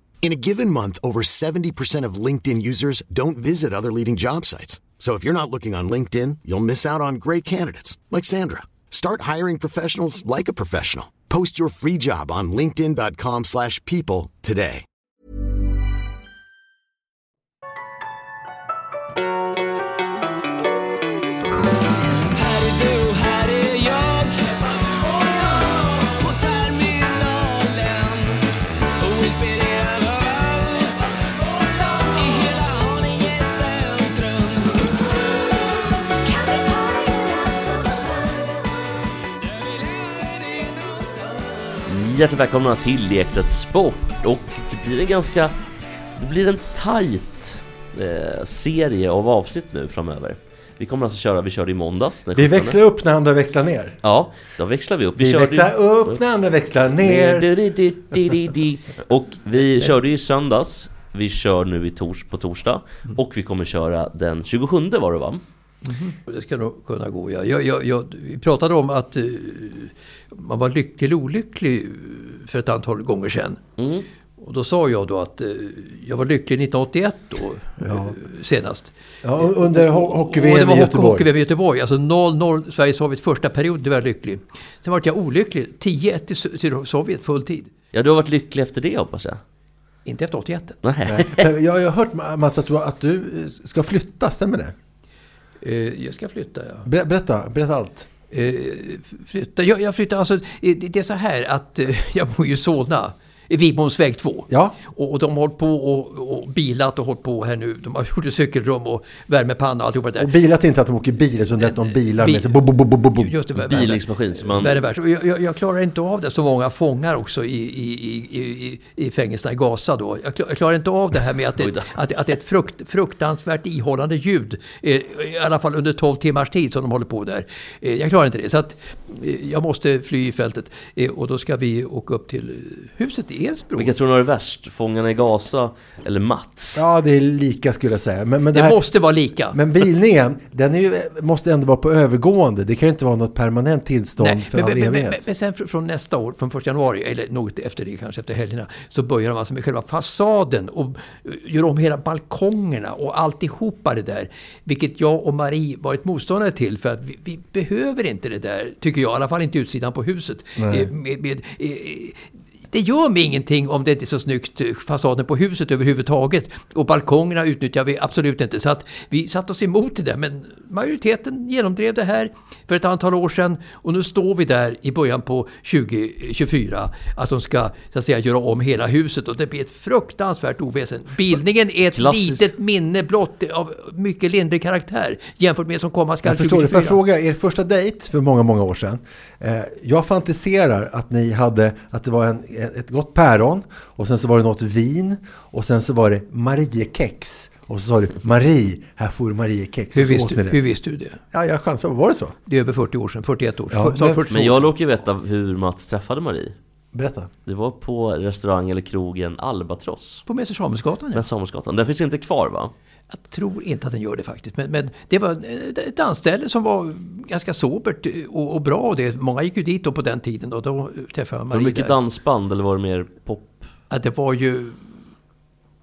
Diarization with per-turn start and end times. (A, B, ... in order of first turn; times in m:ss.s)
0:00.2-0:14.8 A
0:22.3-0:28.4 B
0:29.0-0:35.0 B
0:36.2-0:38.2 B
0:39.4-0:41.4 B
0:41.8-0:45.5 C
0:46.2-0:52.8 C
0:52.3-0:54.0 D
0:54.0-0:56.2 C
0:55.2-0:57.5 D
0:57.0-1:05.4 C
1:05.8-1:13.6 E
1:13.8-1:14.0 C
1:14.4-1:27.7 E
1:17.8-1:18.2 D
1:19.2-1:21.3 D
1:27.9-1:29.4 C
1:30.0-1:30.8 E
1:30.8-1:31.4 C
1:31.0-1:34.7 D
1:35.6-1:36.9 E
1:36.8-1:38.1 D
1:38.3-1:50.3 E
1:44.5-1:44.8 D
1:50.2-1:53.8 D
1:52.1-1:52.6 E
1:53.1-2:13.9 E
1:53.7-1:54.8 C
2:01.6-2:01.9 C
2:13.8-2:16.8 C
2:16.7-2:18.8 D
2:18.5-2:19.6 E
2:19.5-2:25.2 D
2:24.2-3:07.0 E
2:40.6-2:40.9 D
3:01.9-3:02.5 C
3:06.2-3:20.6 D
3:19.9-3:21.2 E
3:21.3-3:22.3 D
3:22.5-3:24.6 E
3:23.7-3:24.2 D
3:24.3-3:26.5 C
3:26.9-3:27.3 D
3:27.4-3:30.2 C
3:30.3-3:31.2 E
3:31.1-3:32.7 C
3:33.1-3:41.9 E
3:41.5-3:43.6 C
3:43.9-3:44.8 E